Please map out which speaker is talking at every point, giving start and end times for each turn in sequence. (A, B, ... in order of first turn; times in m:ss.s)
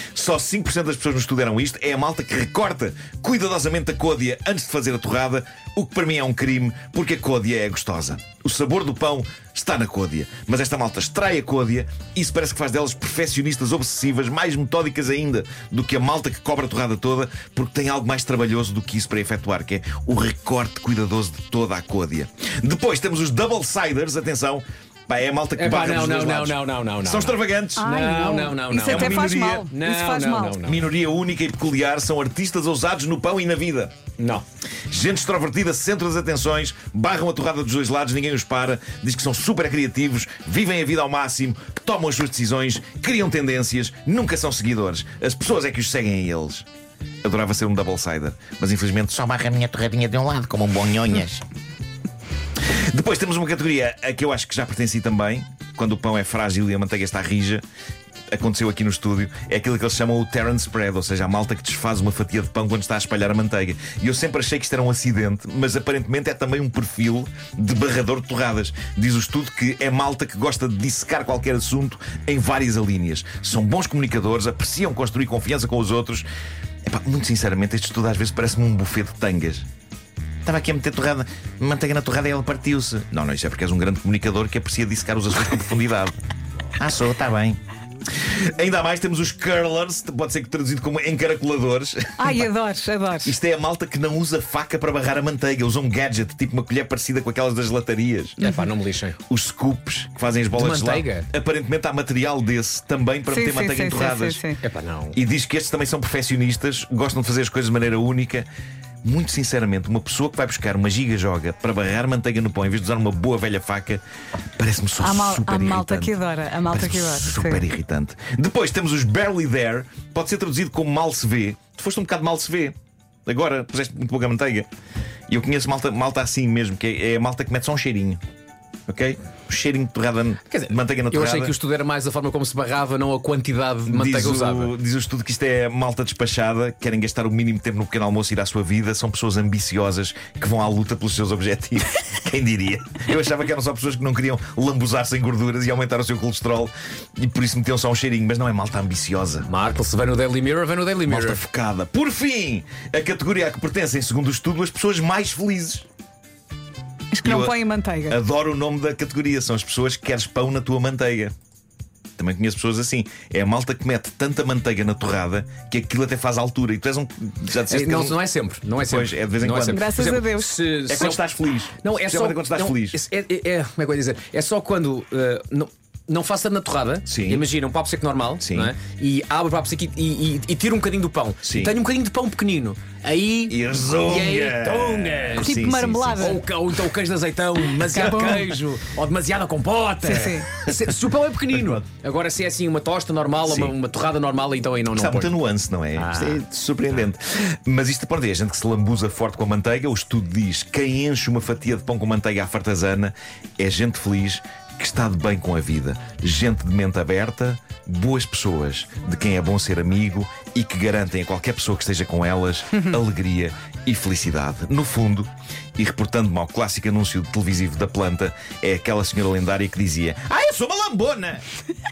0:00.1-0:27.9 A
0:25.6-0:30.9 B
0:27.8-0:30.6 C
0:28.8-0:29.7 A
0:30.6-0:33.9 A
0:34.2-0:34.4 B
0:34.9-0:46.6 A
0:47.2-0:51.4 A
0:52.6-0:57.6 A
0:58.3-1:16.2 A
1:16.9-1:19.6 A
1:20.4-1:26.2 A
1:26.8-1:27.6 A
1:28.2-1:32.4 A
1:32.2-1:33.4 C
1:33.2-1:38.4 A
1:38.4-1:39.2 B
1:39.3-1:44.4 A
1:40.5-1:41.3 B
1:43.3-1:44.6 C
1:44.6-1:45.2 B
1:45.1-1:48.4 A
1:49.0-1:54.0 A
1:54.6-1:56.1 A
1:55.0-1:57.6 C
1:56.7-2:02.7 A
2:03.2-2:04.7 A
2:05.3-2:08.2 A
2:08.9-2:11.5 A
2:10.4-2:14.8 B
2:13.8-2:29.5 A
2:29.4-2:31.4 B
2:31.0-2:35.8 A
2:37.1-2:38.2 C
2:37.2-2:37.6 A
2:38.1-2:41.3 A
2:42.2-2:48.2 A
2:47.7-2:51.2 B
2:48.8-2:50.0 A
2:49.7-2:50.6 C
2:50.9-2:53.0 A
2:51.8-3:05.5 B
2:57.0-2:57.4 A
2:58.4-2:58.7 A
3:01.4-3:01.7 A
3:03.5-3:06.3 A
3:05.4-3:06.4 C
3:06.2-3:15.4 B
3:07.9-3:08.4 C
3:10.0-3:10.5 C
3:13.5-3:13.7 A
3:14.9-3:41.4 A
3:15.9-3:17.0 B